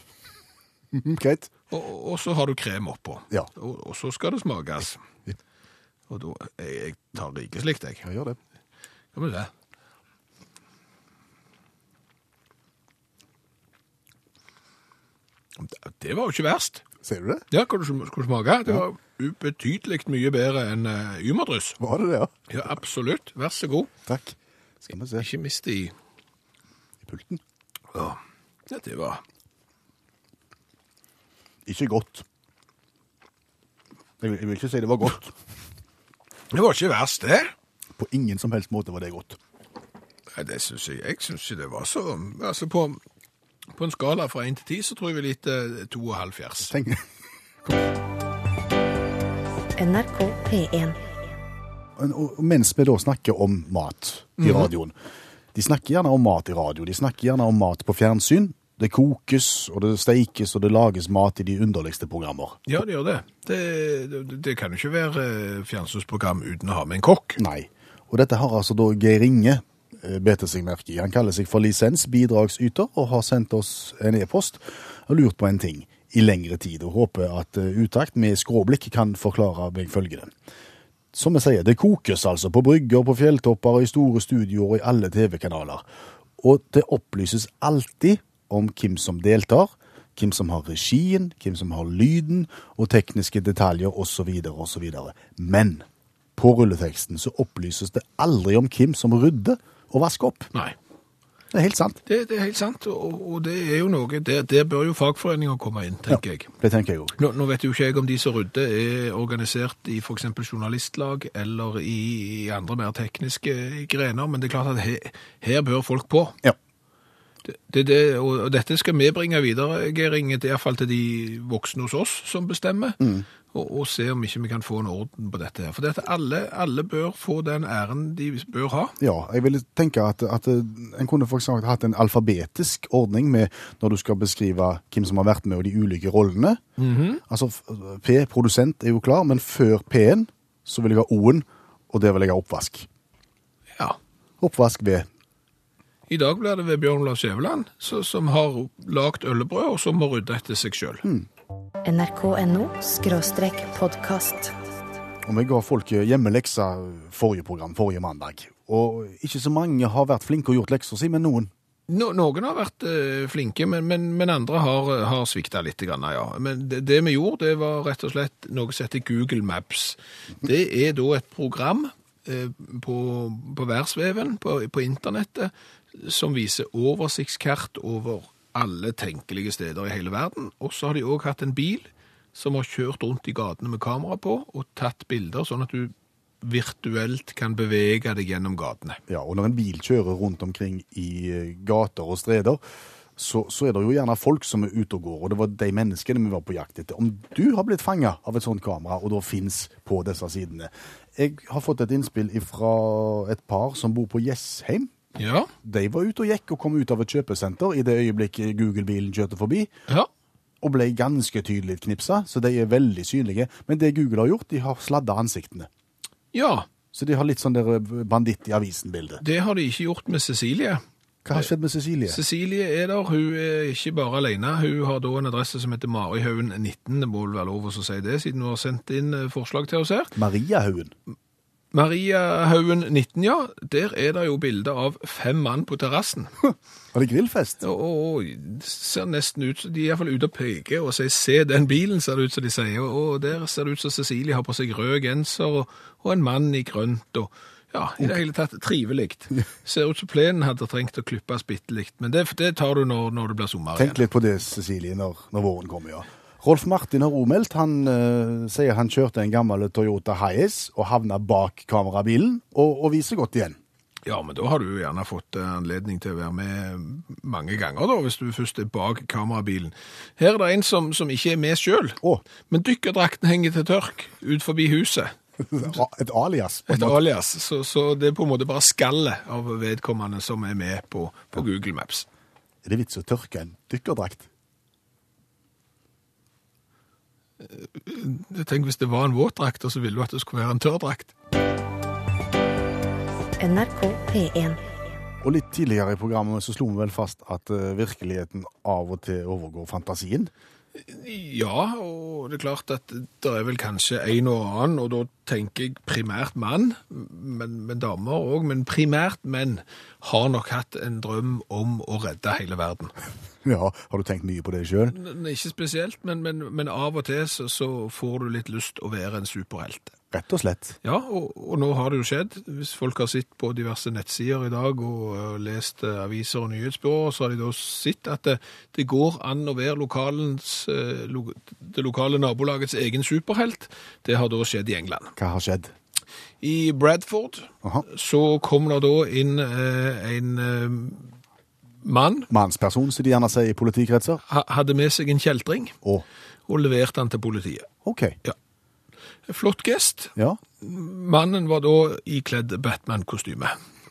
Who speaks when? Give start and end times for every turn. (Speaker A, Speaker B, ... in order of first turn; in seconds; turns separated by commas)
Speaker A: 0.9-1.5, Speaker B: 1.7-5.0, Speaker B: 6.1-8.1, Speaker A: 8.1-8.4, Speaker B: 9.1-9.5, Speaker B: 15.6-16.8, Speaker A: 17.0-17.4, Speaker B: 17.5-21.8, Speaker A: 21.8-22.3, Speaker B: 22.5-23.9, Speaker A: 24.1-25.3, Speaker B: 25.2-25.9, Speaker A: 27.0-27.4, Speaker B: 27.9-29.2, Speaker A: 31.7-32.3, Speaker A: 34.2-35.4, Speaker B: 36.5-37.5, Speaker A: 38.0-39.4, Speaker B: 40.3-43.0, Speaker B: 43.7-46.7, Speaker A: 46.7-47.0, Speaker C: 49.8-51.1, Speaker A: 52.0-54.9, Speaker B: 54.4-54.7, Speaker A: 55.5-62.6, Speaker B: 62.7-67.4, Speaker A: 67.4-80.3, Speaker A: 81.1-85.8, Speaker A: 86.4-100.5, Speaker A: 101.5-102.0, Speaker B: 102.1-106.5, Speaker A: 106.1-107.2, Speaker B: 107.2-116.4, Speaker B: 117.5-123.0, Speaker A: 123.0-123.3, Speaker B: 123.5-129.0, Speaker A: 129.0-136.6, Speaker B: 136.8-137.2, Speaker A: 137.3-142.9, Speaker A: 144.4-145.1, Speaker B: 146.1-151.0, Speaker C: 151.8-154.5, Speaker A: 155.2-161.5, Speaker B: 161.9-189.0, Speaker A: 189.1-192.6, Speaker A: 193.2-204.9, Speaker B: 205.2-205.5, Speaker A: 205.6-209.7, Speaker A: 210.6-215.7, Speaker B: 216.3-216.7, Speaker A: 216.9-219.2, Speaker B: 219.2-220.8, Speaker A: 221.2-222.2, Speaker B: 222.1-230.2, Speaker A: 230.2-230.9, Speaker B: 231.7-236.3, Speaker A: 236.9-237.6, Speaker B: 237.6-254.0, Speaker A: 253.8-263.6, Speaker B: 264.1-275.1, Speaker A: 275.4-277.0, Speaker B: 276.7-282.1, Speaker A: 282.6-284.3, Speaker B: 287.4-291.1, Speaker C: 293.4-294.7, Speaker A: 295.2-300.3, Speaker B: 300.8-312.9, Speaker A: 313.4-315.0, Speaker B: 314.9-319.9, Speaker A: 320.1-320.8, Speaker B: 320.8-335.1, Speaker A: 335.2-335.7, Speaker B: 336.4-341.1, Speaker B: 341.8-342.3, Speaker A: 342.3-344.2, Speaker B: 344.3-345.8, Speaker B: 346.5-347.7, Speaker A: 347.8-348.2, Speaker B: 349.3-353.5